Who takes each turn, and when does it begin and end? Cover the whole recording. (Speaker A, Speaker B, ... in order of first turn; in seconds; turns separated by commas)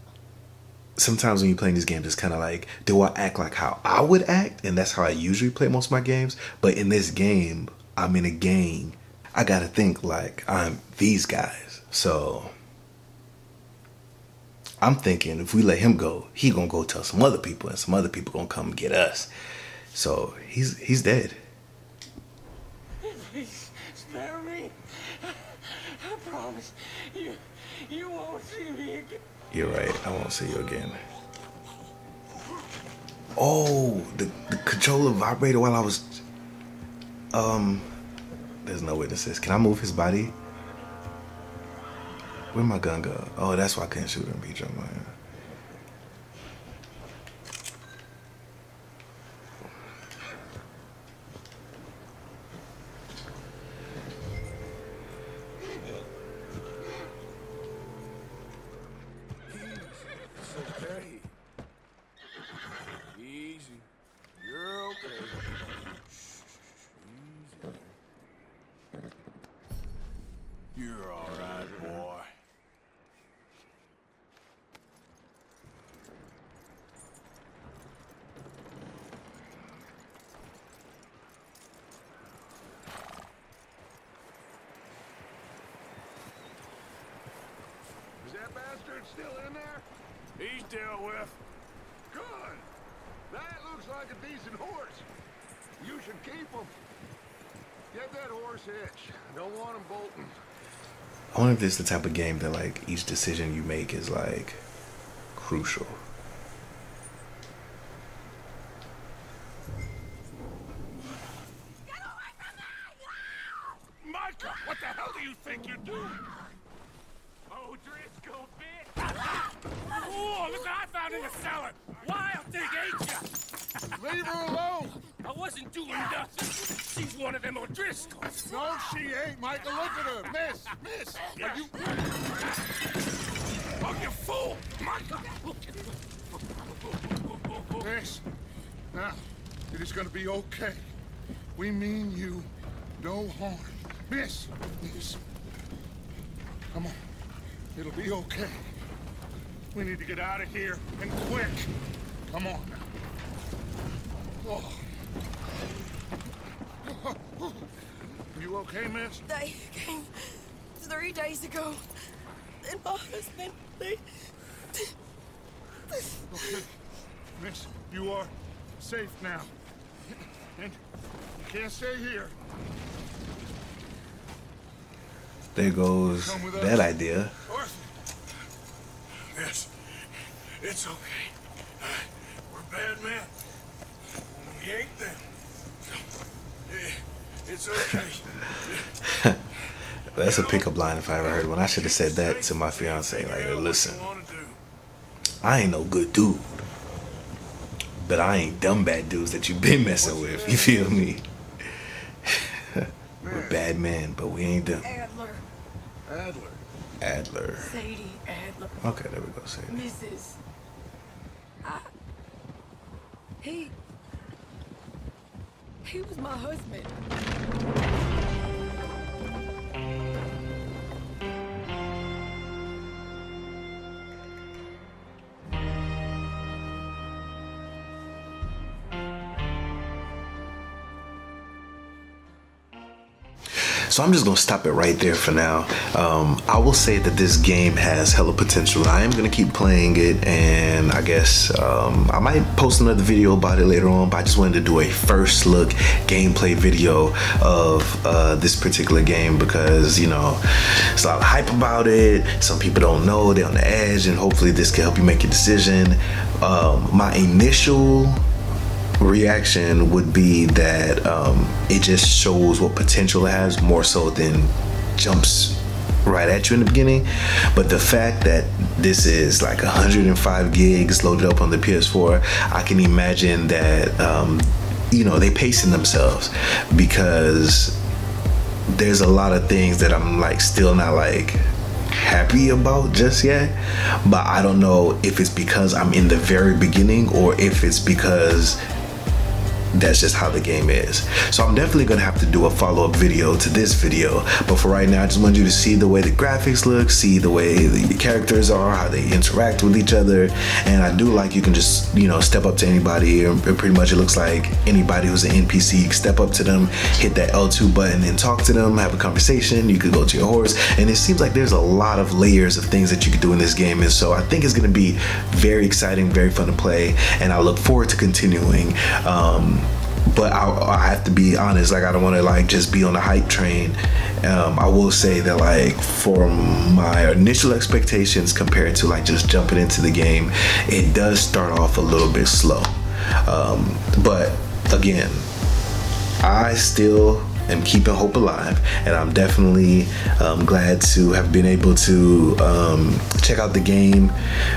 Speaker A: 1.0-12.5, Speaker A: 14.8-19.3, Speaker A: 19.9-21.4, Speaker B: 23.0-29.2, Speaker A: 29.5-31.0, Speaker A: 33.4-36.2, Speaker A: 37.3-37.9, Speaker A: 38.6-40.4, Speaker A: 42.5-45.1, Speaker C: 59.5-61.3, Speaker D: 60.5-61.1, Speaker C: 63.1-63.9, Speaker D: 64.4-65.4, Speaker C: 67.0-67.8, Speaker C: 70.7-72.3, Speaker D: 88.2-89.8, Speaker C: 90.4-91.4, Speaker D: 92.1-92.7, Speaker D: 93.3-95.1, Speaker D: 95.8-96.7, Speaker D: 97.9-100.3, Speaker A: 101.3-104.6, Speaker A: 105.4-106.0, Speaker D: 114.4-116.2, Speaker B: 117.5-119.0, Speaker B: 119.8-123.3, Speaker D: 124.0-125.0, Speaker B: 125.1-128.7, Speaker D: 128.5-132.0, Speaker D: 133.8-135.3, Speaker D: 137.8-138.2, Speaker D: 138.9-140.9, Speaker D: 141.6-145.2, Speaker D: 146.7-147.0, Speaker D: 147.8-148.6, Speaker D: 149.7-151.7, Speaker D: 152.3-152.9, Speaker D: 154.4-154.8, Speaker D: 156.9-157.6, Speaker D: 158.3-159.2, Speaker E: 159.3-161.8, Speaker E: 162.6-164.0, Speaker E: 165.9-166.7, Speaker D: 166.3-166.7, Speaker D: 167.4-169.5, Speaker D: 171.4-172.3, Speaker A: 175.6-177.3, Speaker D: 176.2-176.9, Speaker D: 177.5-177.9, Speaker C: 179.2-179.7, Speaker C: 180.6-183.3, Speaker C: 184.2-185.2, Speaker C: 186.7-188.9, Speaker A: 189.0-189.4, Speaker A: 190.1-194.1, Speaker C: 190.2-194.6, Speaker A: 195.4-196.6, Speaker A: 198.0-204.9, Speaker D: 200.0-201.0, Speaker D: 203.2-203.6, Speaker E: 204.8-205.4, Speaker D: 206.1-206.6, Speaker A: 207.0-207.7, Speaker E: 207.6-208.8, Speaker A: 208.8-209.8, Speaker E: 209.7-210.4, Speaker E: 213.4-213.7, Speaker E: 215.8-217.0, Speaker A: 233.6-258.2, Speaker A: 259.0-277.8, Speaker A: 278.7-288.6, Speaker A: 289.7-335.3, Speaker A: 336.2-344.1